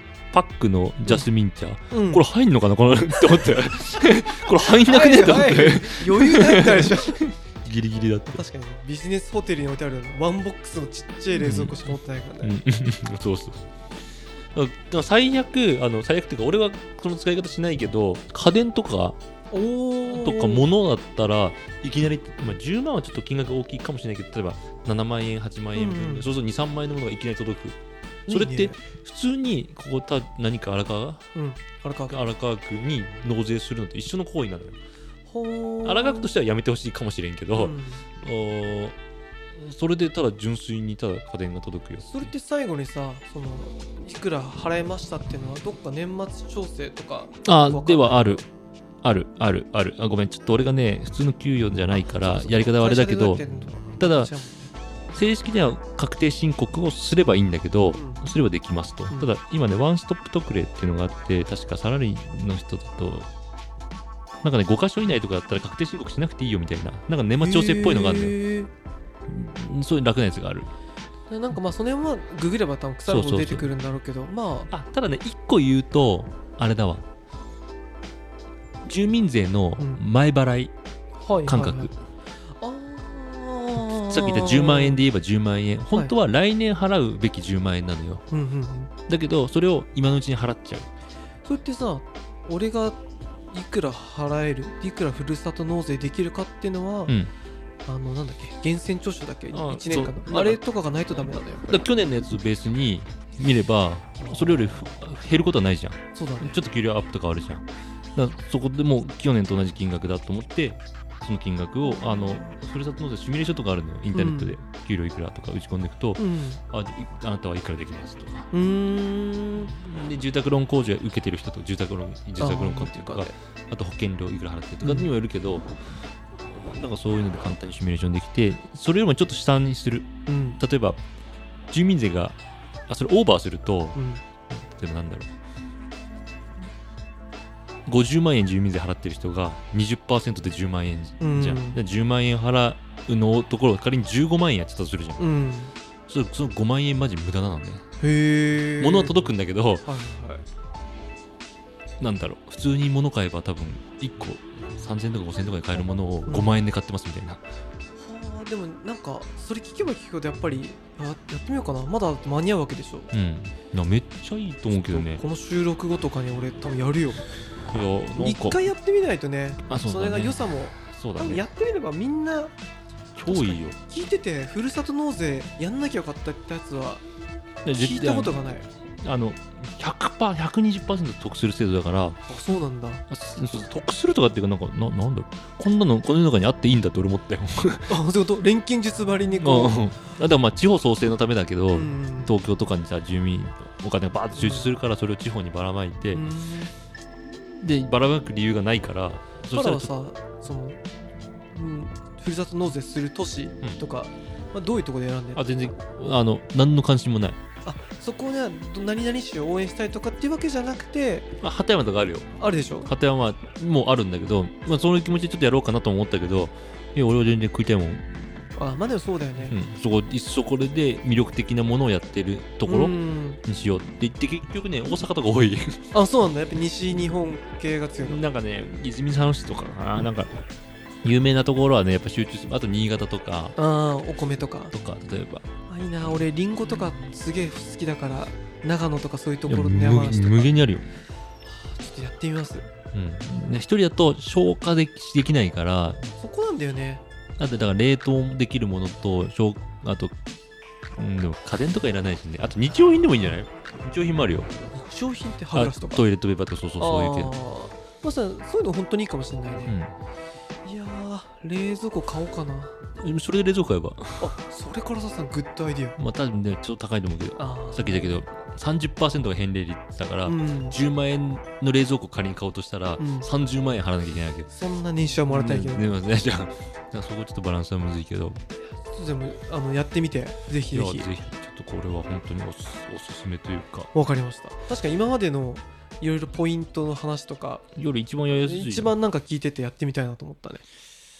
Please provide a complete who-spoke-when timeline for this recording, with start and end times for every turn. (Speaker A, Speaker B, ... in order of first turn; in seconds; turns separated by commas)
Speaker A: 0.3-8.4, Speaker B: 1.9-2.2, Speaker B: 4.7-7.2, Speaker B: 8.3-12.6, Speaker A: 11.3-13.6, Speaker A: 14.6-19.2, Speaker B: 19.5-20.7, Speaker A: 20.1-31.2, Speaker B: 25.8-26.3, Speaker B: 28.3-28.8, Speaker B: 31.4-32.1, Speaker A: 32.1-34.8, Speaker B: 35.3-36.3, Speaker A: 35.8-39.0, Speaker B: 37.5-38.0, Speaker A: 39.5-42.3, Speaker B: 42.0-48.4, Speaker A: 47.4-48.5, Speaker A: 49.0-53.4, Speaker B: 52.1-54.7, Speaker A: 54.0-54.3, Speaker A: 55.1-63.3, Speaker B: 57.9-58.3, Speaker A: 64.4-68.4, Speaker B: 67.4-68.7, Speaker A: 69.3-70.7, Speaker B: 71.3-74.7, Speaker A: 73.1-73.7, Speaker A: 74.7-77.0, Speaker A: 78.8-80.7, Speaker B: 81.2-81.9, Speaker A: 81.5-82.0, Speaker B: 82.6-85.0, Speaker A: 84.1-88.2, Speaker B: 88.3-88.9, Speaker A: 89.1-90.9, Speaker B: 91.5-97.2, Speaker B: 97.8-101.9, Speaker A: 99.5-118.5, Speaker B: 104.2-104.6, Speaker B: 106.2-106.6, Speaker B: 114.1-114.6, Speaker B: 116.2-116.6, Speaker B: 118.5-119.7, Speaker A: 119.6-125.7, Speaker B: 122.4-123.3, Speaker B: 124.8-125.1, Speaker A: 126.5-131.0, Speaker B: 130.3-130.6, Speaker A: 131.7-132.4, Speaker A: 132.9-134.0, Speaker B: 133.9-134.2, Speaker A: 134.5-135.3, Speaker A: 137.9-145.3, Speaker B: 141.2-141.8, Speaker B: 145.2-145.7, Speaker A: 146.1-147.8, Speaker B: 148.0-149.1, Speaker A: 148.8-149.9, Speaker B: 149.8-150.4, Speaker A: 152.0-157.4, Speaker B: 156.3-156.6, Speaker B: 158.0-163.1, Speaker A: 163.1-165.2, Speaker B: 164.7-167.3, Speaker A: 167.7-168.6, Speaker B: 168.2-172.5, Speaker A: 169.7-171.4, Speaker A: 173.2-173.8, Speaker B: 173.3-177.0, Speaker A: 177.7-178.4, Speaker B: 177.8-178.7, Speaker A: 179.0-182.2, Speaker B: 182.3-183.0, Speaker A: 183.1-187.9, Speaker B: 187.9-189.8, Speaker A: 189.4-196.2, Speaker B: 191.7-192.3, Speaker B: 194.4-194.7, Speaker B: 196.1-196.7, Speaker A: 197.3-199.9, Speaker B: 199.5-200.8, Speaker B: 201.5-205.7, Speaker A: 205.3-207.4, Speaker B: 207.7-211.3, Speaker A: 211.4-212.3, Speaker B: 212.4-212.9, Speaker A: 212.8-218.0, Speaker B: 218.6-219.6, Speaker A: 219.5-225.8, Speaker B: 222.7-223.4, Speaker B: 225.9-228.2, Speaker A: 228.0-230.3, Speaker A: 231.0-233.6, Speaker B: 233.6-234.7, Speaker A: 234.7-235.5, Speaker B: 235.7-240.5, Speaker A: 239.5-240.9, Speaker B: 241.5-242.7, Speaker A: 242.9-246.1, Speaker B: 246.2-247.0, Speaker A: 247.4-250.1, Speaker A: 251.0-254.5, Speaker B: 254.7-256.1, Speaker A: 255.5-257.3, Speaker B: 256.8-259.8, Speaker A: 259.7-259.9, Speaker B: 260.6-262.8, Speaker A: 263.0-264.3, Speaker B: 264.2-266.0, Speaker A: 266.0-274.5, Speaker B: 267.4-268.2, Speaker B: 270.2-270.8, Speaker B: 273.0-273.3, Speaker B: 274.5-275.9, Speaker A: 275.3-278.4, Speaker B: 278.8-281.1, Speaker A: 280.7-283.9, Speaker B: 283.9-287.6, Speaker A: 287.8-288.9, Speaker B: 288.3-290.6